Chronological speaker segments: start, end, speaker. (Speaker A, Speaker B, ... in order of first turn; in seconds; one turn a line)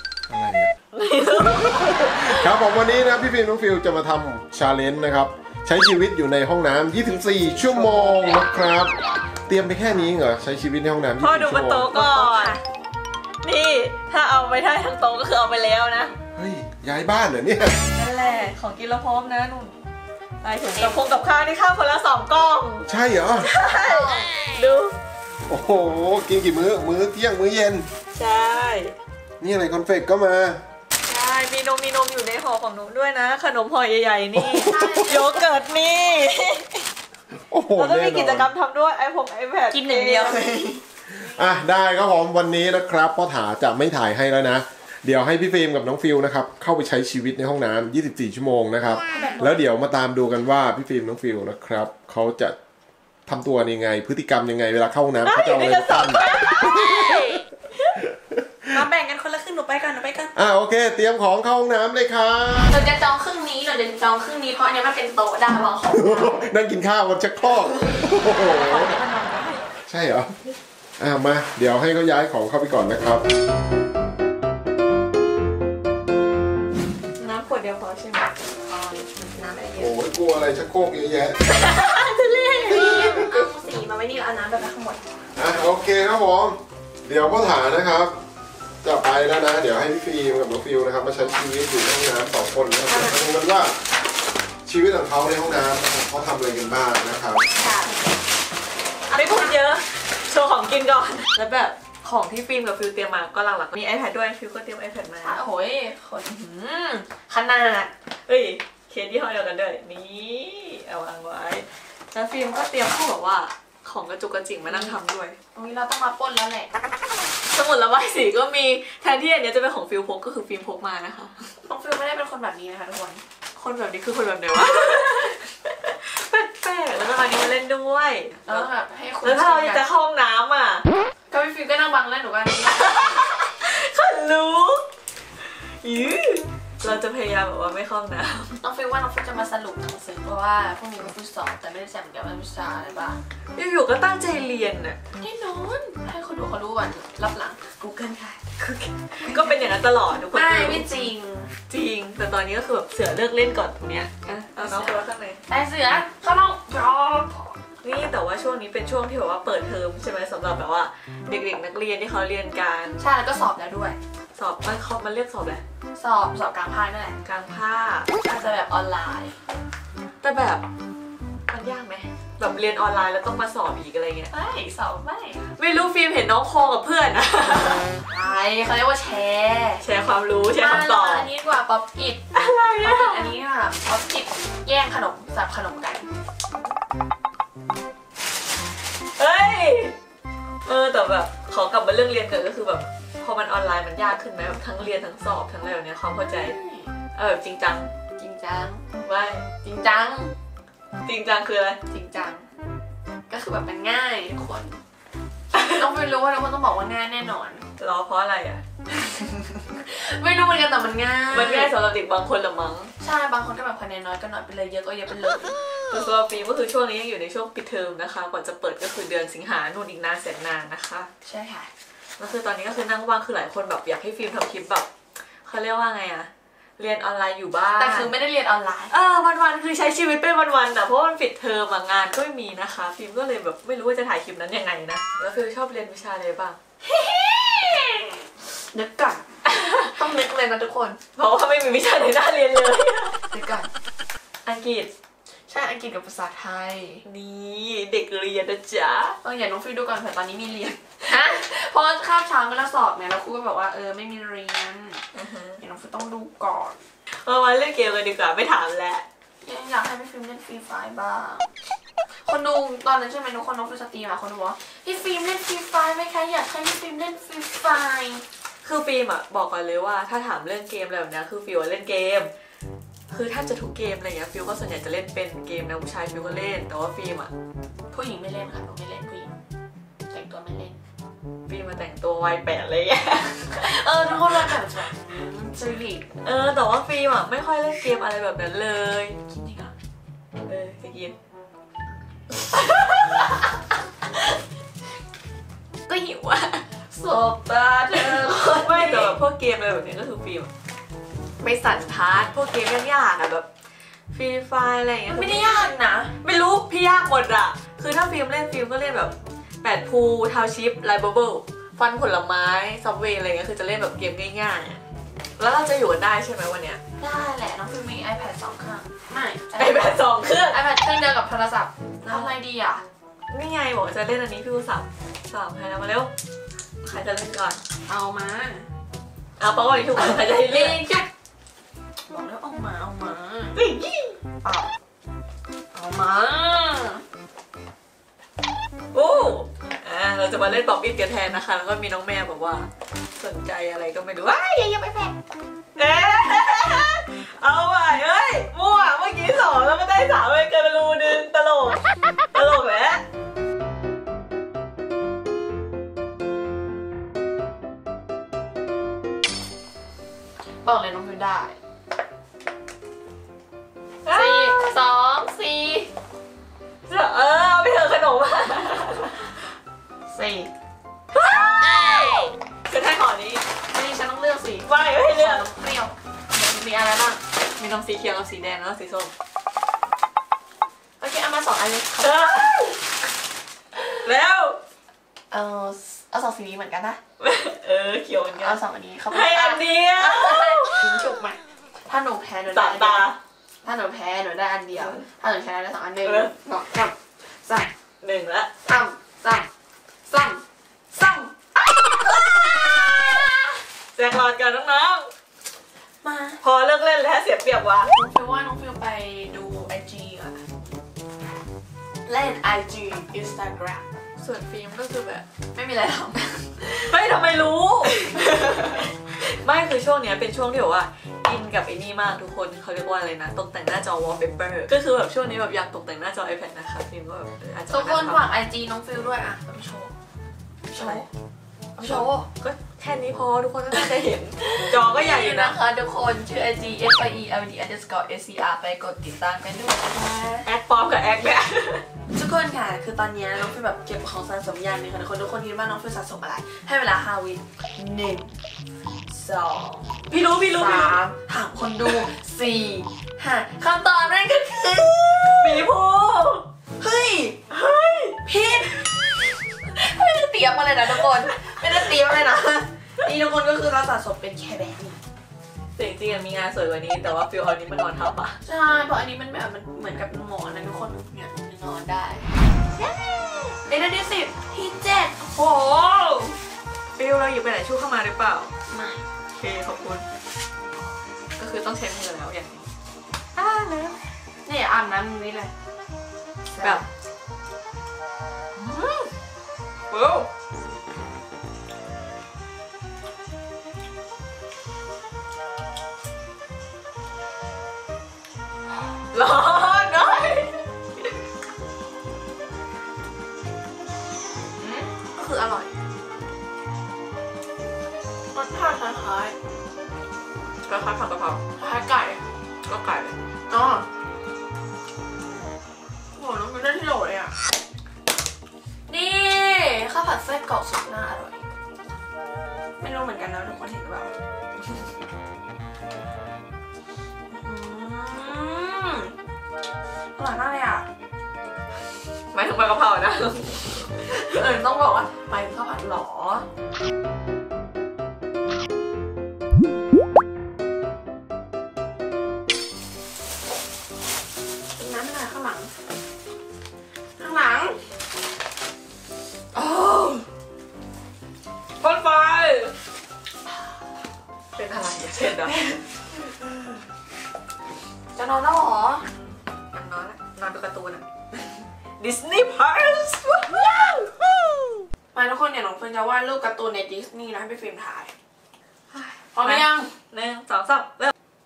Speaker A: 0.3-0.7
Speaker B: 0.9-2.5
Speaker A: 1.8-8.9
Speaker A: 9.5-11.9
Speaker B: 11.2-12.6
Speaker C: 11.9-12.6
Speaker B: 13.4-16.1
Speaker A: 16.3-17.8
Speaker B: 17.9-19.7
Speaker B: 20.4-22.9
Speaker C: 20.7-21.1
Speaker A: 22.9-23.5
Speaker B: 23.4-24.9
Speaker C: 23.6-24.3
Speaker A: 25.5-27.9
Speaker B: 28.1-28.9
Speaker A: 29.4-30.6
Speaker B: 31.1-36.8
Speaker A: 34.4-35.1
Speaker C: 34.6-35.5
Speaker A: 37.5-38.5
Speaker B: 37.8-40.4
Speaker C: 39.7-41.2
Speaker A: 41.2-52.5
Speaker C: 49.1-49.6
Speaker A: 53.3-56.2
Speaker B: 55.2-58.0
Speaker C: 58.7-60.3
Speaker A: 60.3-62.8
Speaker C: 62.7-66.4
Speaker A: 65.9-69.0
Speaker B: 68.2-69.6
Speaker A: 69.9-70.3
Speaker A: 71.0-73.2
Speaker B: 77.2-78.3
Speaker C: 77.4-79.9
Speaker A: 79.8-81.4
Speaker B: 81.5-83.2
Speaker C: 82.5-85.1
Speaker A: 82.9-83.2
Speaker A: 85.3-88.2
Speaker A: 88.8-93.7
Speaker C: 92.9-93.2
Speaker A: 94.6-97.4
Speaker C: 97.5-98.0
Speaker C: 99.1-99.6
Speaker B: 99.1-105.4
Speaker C: 105.2-106.4
Speaker B: 106.3-115.4
Speaker C: 114.7-115.0
Speaker C: 115.5-116.7
Speaker B: 117.5-121.5
Speaker C: 121.6-123.2
Speaker B: 123.5-128.7
Speaker C: 128.4-129.8
Speaker B: 129.2-130.8
Speaker C: 131.3-133.2
Speaker B: 132.7-134.8
Speaker B: 135.8-138.6
Speaker C: 138.6-143.2
Speaker B: 143.5-145.0
Speaker C: 145.2-148.3
Speaker B: 148.2-150.9
Speaker C: 149.2-149.6
Speaker C: 150.3-151.5
Speaker B: 151.7-155.4
Speaker C: 154.2-157.6
Speaker B: 157.8-163.0
Speaker C: 163.0-164.0
Speaker B: 164.3-165.6
Speaker C: 165.9-167.2
Speaker B: 167.2-168.5
Speaker C: 168.2-169.3
Speaker B: 170.2-170.6
Speaker B: 171.5-174.3
Speaker C: 174.3-175.4
Speaker B: 175.4-177.8
Speaker C: 178.0-179.8
Speaker B: 179.8-181.3
Speaker C: 180.6-182.2
Speaker B: 182.3-183.3
Speaker C: 182.8-186.1
Speaker B: 189.2-189.9
Speaker B: 190.7-196.5
Speaker C: 196.1-196.9
Speaker B: 197.1-197.9
Speaker C: 198.2-198.8
Speaker B: 199.0-199.5
Speaker C: 199.6-200.3
Speaker B: 201.0-201.8
Speaker C: 201.9-202.5
Speaker C: 203.3-204.8
Speaker C: 205.7-207.6
Speaker B: 207.8-208.6
Speaker C: 209.0-211.7
Speaker B: 211.3-212.9
Speaker C: 213.0-215.6
Speaker B: 215.9-221.1
Speaker C: 221.2-221.7
Speaker B: 222.2-224.9
Speaker B: 225.4-228.1
Speaker C: 227.8-228.9
Speaker B: 228.9-236.6
Speaker C: 236.8-239.3
Speaker B: 239.5-239.9
Speaker C: 239.9-241.0
Speaker B: 241.2-243.2
Speaker C: 243.3-243.7
Speaker B: 244.4-244.9
Speaker C: 245.5-247.0
Speaker B: 247.0-249.2
Speaker C: 249.2-255.0
Speaker B: 255.1-255.6
Speaker C: 255.6-256.8
Speaker B: 257.1-259.0
Speaker C: 259.4-261.5
Speaker C: 262.2-268.2
Speaker B: 268.6-272.3
Speaker B: 273.1-277.3
Speaker C: 277.9-279.3
Speaker C: 280.1-280.8
Speaker B: 281.5-284.6
Speaker C: 283.5-286.1
Speaker B: 286.2-289.1
Speaker C: 289.3-289.7
Speaker B: 290.4-291.1
Speaker B: 292.5-293.4
Speaker B: 295.9-296.6
Speaker C: 296.9-299.2
Speaker B: 298.0-300.5
Speaker B: 301.4-303.4
Speaker B: 304.1-305.7
Speaker C: 305.1-306.1
Speaker B: 306.2-314.8
Speaker B: 315.4-316.8
Speaker C: 317.0-322.8
Speaker B: 319.5-320.6
Speaker B: 323.3-326.1
Speaker B: 326.8-327.6
Speaker C: 327.8-328.7
Speaker B: 329.4-330.8
Speaker C: 330.0-331.1
Speaker C: 332.1-333.6
Speaker B: 333.6-334.1
Speaker C: 334.4-334.7
Speaker C: 335.7-337.0
Speaker B: 338.9-344.6
Speaker C: 344.6-345.1
Speaker B: 345.8-351.8
Speaker B: 352.3-353.0
Speaker C: 360.6-361.6
Speaker B: 364.1-364.7
Speaker C: 364.1-365.9
Speaker B: 366.9-369.3
Speaker C: 370.1-370.5
Speaker B: 371.1-372.1
Speaker B: 372.6-373.4
Speaker C: 373.7-377.2
Speaker B: 374.6-375.5
Speaker B: 377.6-379.1
Speaker C: 381.0-382.5
Speaker B: 382.0-382.8
Speaker B: 384.0-384.6
Speaker C: 385.3-387.0
Speaker B: 387.2-390.8
Speaker C: 388.4-393.1
Speaker B: 392.5-393.2
Speaker C: 393.6-397.7
Speaker B: 394.8-395.1
Speaker B: 396.0-396.3
Speaker B: 398.0-398.5
Speaker C: 398.6-399.5
Speaker C: 400.1-403.6
Speaker B: 403.9-405.1
Speaker C: 406.0-406.4
Speaker B: 406.4-407.9
Speaker C: 407.9-410.4
Speaker C: 412.0-413.9
Speaker B: 414.2-415.2
Speaker C: 415.5-416.9
Speaker B: 416.8-428.3
Speaker C: 427.7-429.9
Speaker C: 430.7-431.1
Speaker B: 430.8-431.1
Speaker B: 431.8-435.6
Speaker C: 431.8-432.2
Speaker C: 434.6-440.5
Speaker B: 440.4-441.8
Speaker C: 442.1-448.3
Speaker C: 449.1-455.6
Speaker B: 450.1-451.0
Speaker B: 455.4-456.4
Speaker C: 456.8-457.4
Speaker B: 457.5-458.2
Speaker C: 458.2-458.8
Speaker C: 459.6-465.0
Speaker B: 465.8-468.4
Speaker C: 468.4-472.3
Speaker B: 472.8-473.4
Speaker C: 473.0-476.4
Speaker B: 476.9-478.5
Speaker C: 478.7-479.0
Speaker B: 479.4-480.0
Speaker B: 481.4-482.7
Speaker B: 483.4-484.0
Speaker C: 484.4-485.5
Speaker C: 486.5-486.8
Speaker B: 488.6-489.1
Speaker C: 489.9-490.2
Speaker B: 489.9-490.2
Speaker B: 499.1-500.5
Speaker C: 504.6-505.7
Speaker C: 508.3-509.3
Speaker B: 510.6-511.4
Speaker C: 511.6-512.2
Speaker B: 512.6-513.1
Speaker C: 513.5-513.9
Speaker C: 516.1-517.3
Speaker C: 518.9-521.4
Speaker C: 522.8-524.1
Speaker C: 527.3-529.1
Speaker C: 530.1-530.9
Speaker B: 532.3-534.0
Speaker C: 534.0-536.4
Speaker C: 544.8-545.7
Speaker C: 547.2-547.8
Speaker C: 549.5-550.2
Speaker B: 549.6-550.2
Speaker B: 551.8-552.7
Speaker B: 554.5-555.6
Speaker C: 555.5-555.8
Speaker C: 558.1-559.0
Speaker B: 559.7-561.0
Speaker B: 562.0-563.6
Speaker C: 563.6-564.0
Speaker C: 565.1-568.1
Speaker B: 568.9-571.1
Speaker C: 569.3-569.9